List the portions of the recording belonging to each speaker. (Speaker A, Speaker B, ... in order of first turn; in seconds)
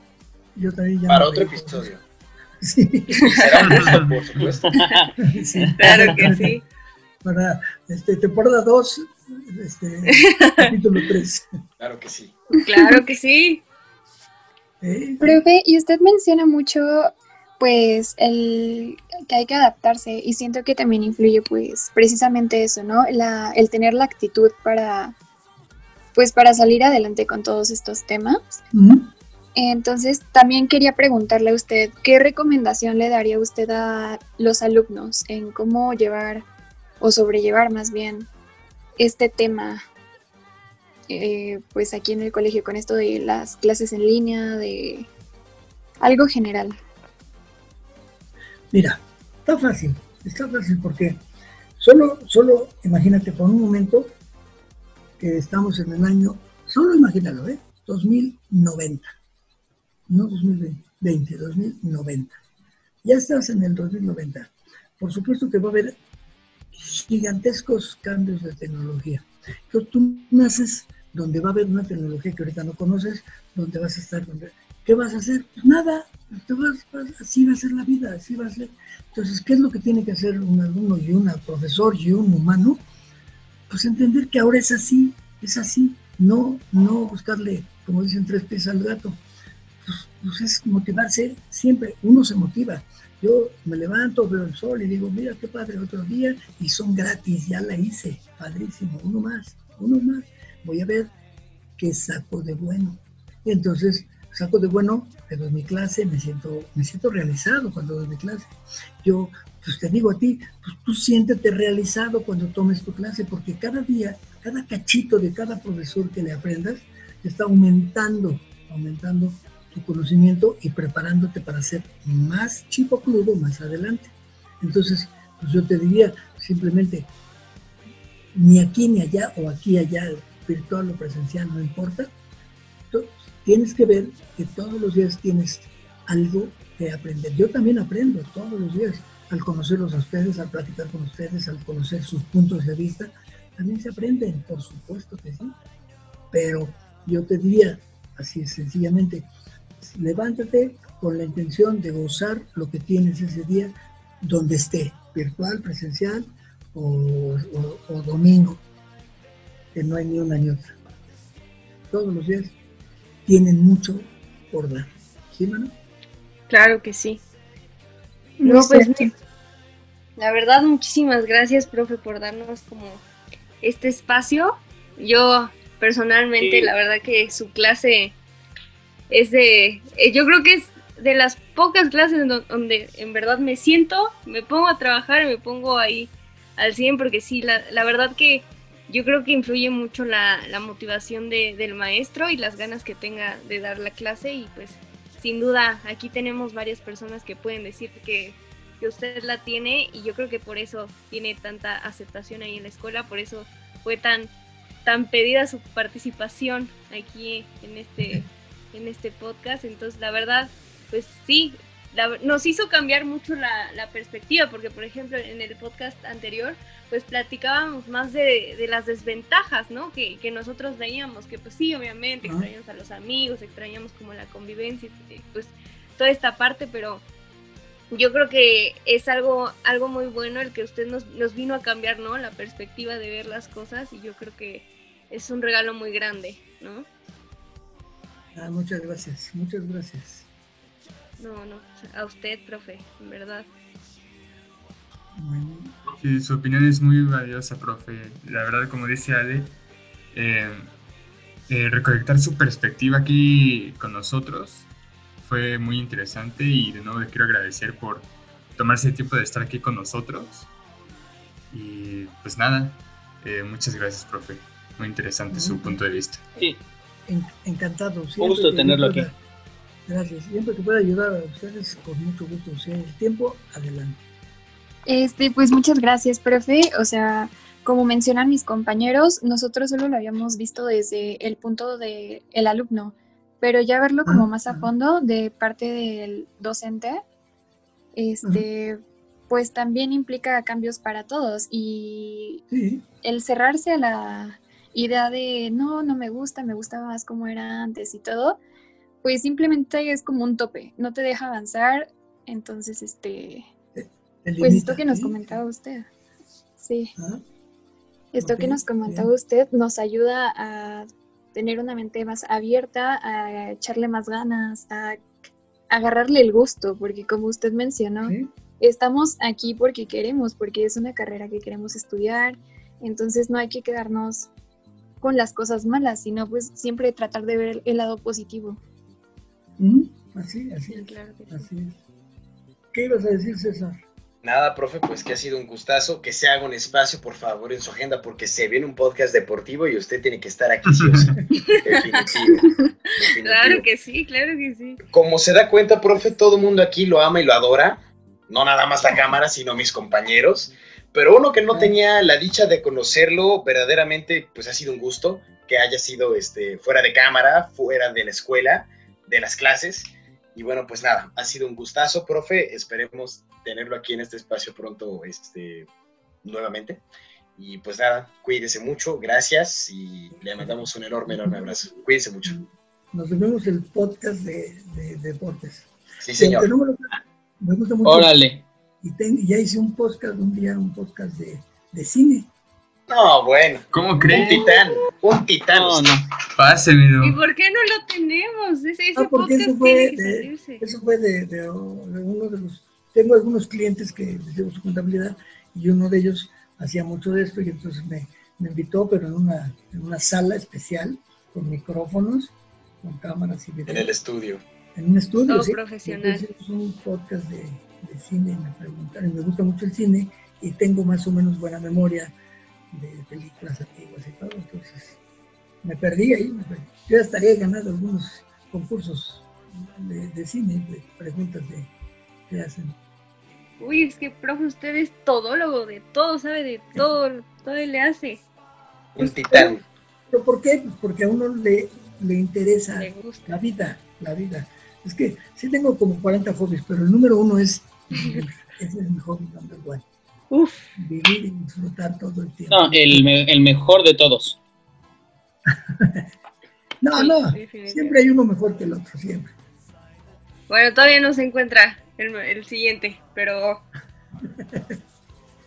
Speaker A: 0.6-1.9, 2.6-3.8, 5.2-6.6, 7.2-11.5, 14.8-15.4, 28.7-29.1, 48.7-51.2, 51.8-54.1, 55.2-59.2, 60.1-62.4, 63.0-66.0, 66.7-82.8, 83.7-89.2, 89.8-101.1, 101.8-127.1, 128.3-132.1, 132.9-145.5, 146.3-149.3, 149.8-158.6, 159.7-160.8, 161.9-162.5, 163.3-165.7, 222.2-222.5, 238.3-240.3, 245.2-245.8, 265.3-265.8, 267.1-269.1, 269.9-274.0, 284.1-284.7, 292.5-292.8, 303.8-305.4, 307.0-307.2, 308.2-309.1, 318.0-318.3, 329.6-331.8, 332.7-333.8, 370.4-371.7, 372.3-376.9, 377.4-378.2, 378.8-382.3, 389.0-403.9, 404.8-412.1, 412.7-415.0, 415.6-421.7, 422.3-422.8, 429.0-439.9, 440.8-443.2, 445.5-446.1, 446.8-449.3, 454.3-454.8
Speaker B: 1.1-2.0, 3.3-4.8, 11.8-12.4, 334.2-343.7, 344.9-365.7, 366.2-366.8, 367.4-372.4, 376.0-376.5, 382.9-386.0, 403.7-404.4, 428.9-429.6
Speaker C: 3.7-4.1, 245.9-249.6, 250.1-250.7, 251.5-254.7, 255.2-260.5, 261.5-266.3, 340.7-341.2, 383.7-384.5, 386.4-387.2
Speaker D: 4.7-5.1, 5.7-6.3, 176.4-176.7, 268.2-269.1, 377.8-378.4, 385.5-386.1, 442.5-444.4
Speaker E: 5.8-6.6, 10.1-10.7, 12.7-13.6, 166.5-167.2, 168.4-169.1, 170.2-173.0, 173.6-178.2, 179.1-204.3, 204.8-227.0, 227.9-236.9, 241.2-243.5, 330.7-331.5, 341.5-341.8, 343.2-344.8, 387.0-390.6, 405.3-406.3, 423.6-428.2, 432.8-433.4, 437.9-438.2, 440.3-440.7, 447.0-448.0, 450.5-453.6
Speaker F: 12.7-13.0, 15.2-25.1, 26.1-28.6, 29.6-36.5, 37.0-38.3, 39.0-39.8, 41.1-45.1, 46.0-46.8, 168.4-169.0, 274.9-287.0, 288.0-288.8, 289.3-292.4, 293.0-298.4, 299.0-303.5, 304.4-305.9, 306.6-306.9, 308.1-315.0, 315.7-324.3, 325.0-328.6